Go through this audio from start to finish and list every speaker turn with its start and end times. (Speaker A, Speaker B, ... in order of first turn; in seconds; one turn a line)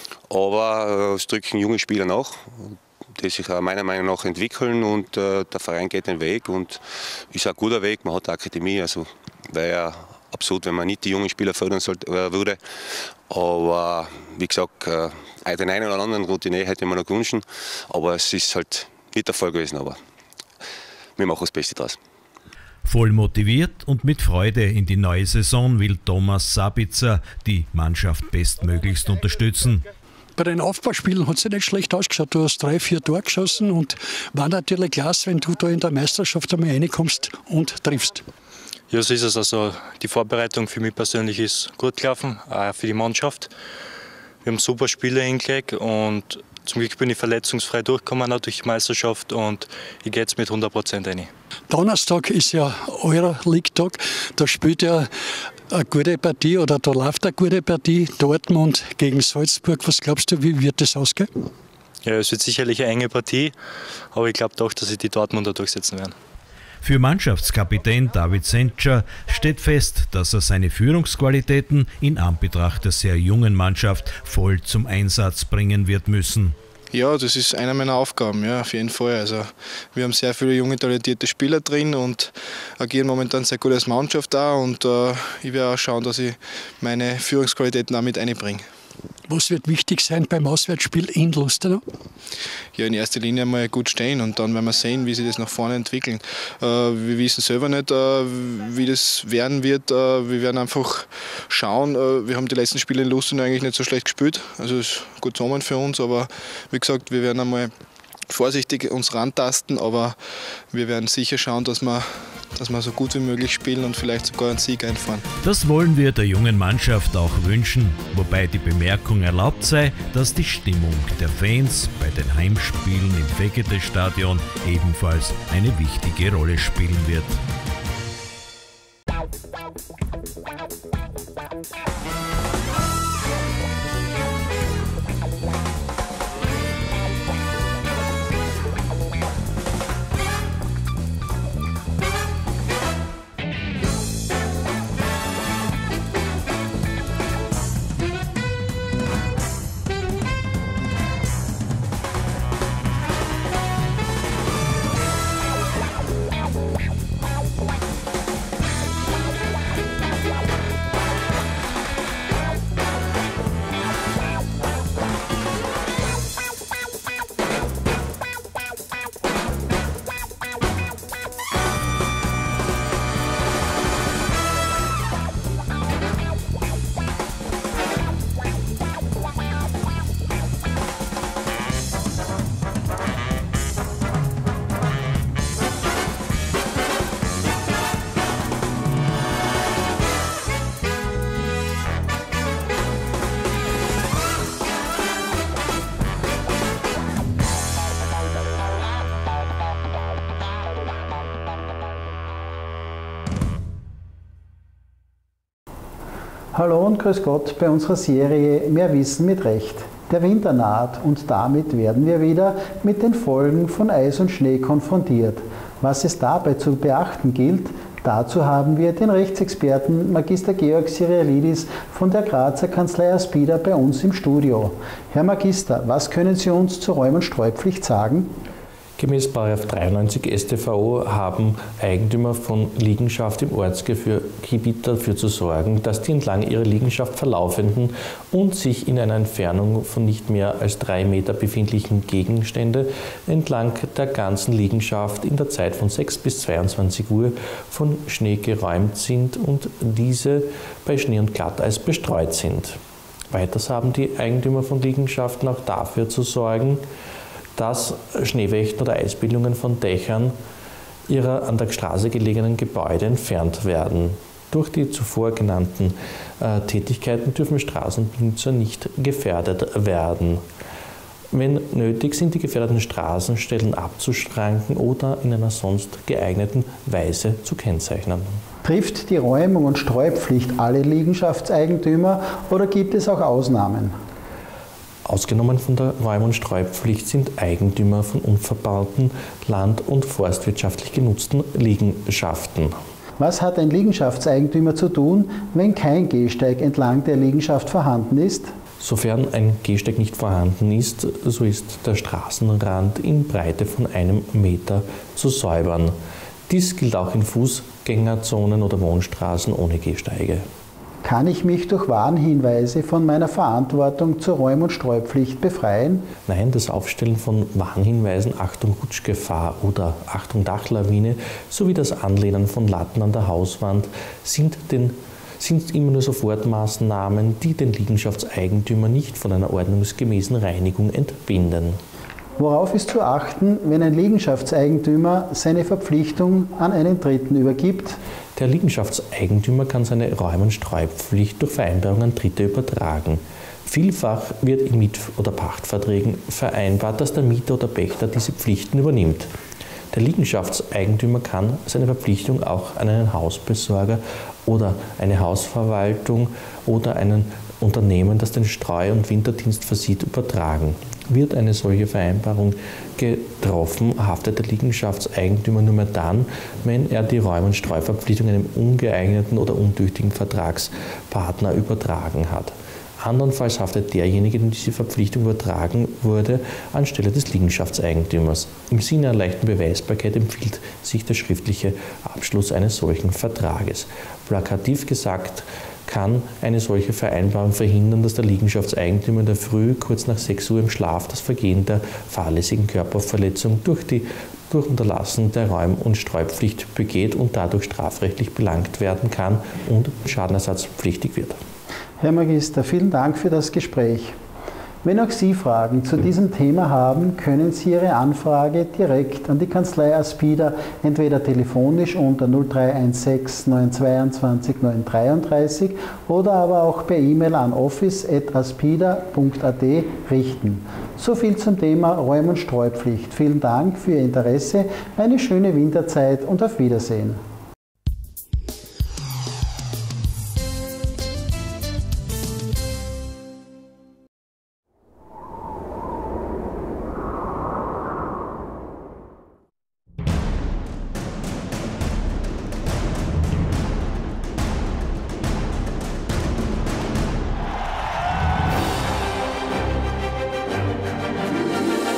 Speaker A: 0.3-20.0
Speaker A: 21.2-22.0
Speaker B: 22.8-29.8
Speaker C: 30.4-38.2
Speaker D: 38.9-43.5
Speaker D: 44.4-51.3
Speaker C: 51.7-55.1
Speaker C: 55.7-61.3
Speaker D: 62.0-63.6
Speaker D: 64.1-66.1
Speaker B: 66.8-76.5
Speaker E: 76.9-88.7
Speaker C: 89.3-91.8
Speaker E: 92.7-107.7
Speaker E: 108.3-115.2
Speaker B: 115.4-127.4
Speaker F: 206.5-228.3
Speaker G: 229.0-252.8
Speaker G: 253.3-256.8
Speaker G: 257.6-260.4
Speaker G: 261.1-270.4
Speaker G: 271.3-278.4
Speaker F: 278.6-283.9
Speaker G: 285.0-292.8
Speaker F: 293.2-298.5
Speaker G: 298.8-310.5
Speaker F: 311.0-316.1
Speaker G: 316.2-331.8
Speaker F: 332.4-338.0
Speaker G: 338.4-349.3
Speaker G: 349.9-401.4
Speaker F: 402.0-404.1
Speaker F: 404.8-427.2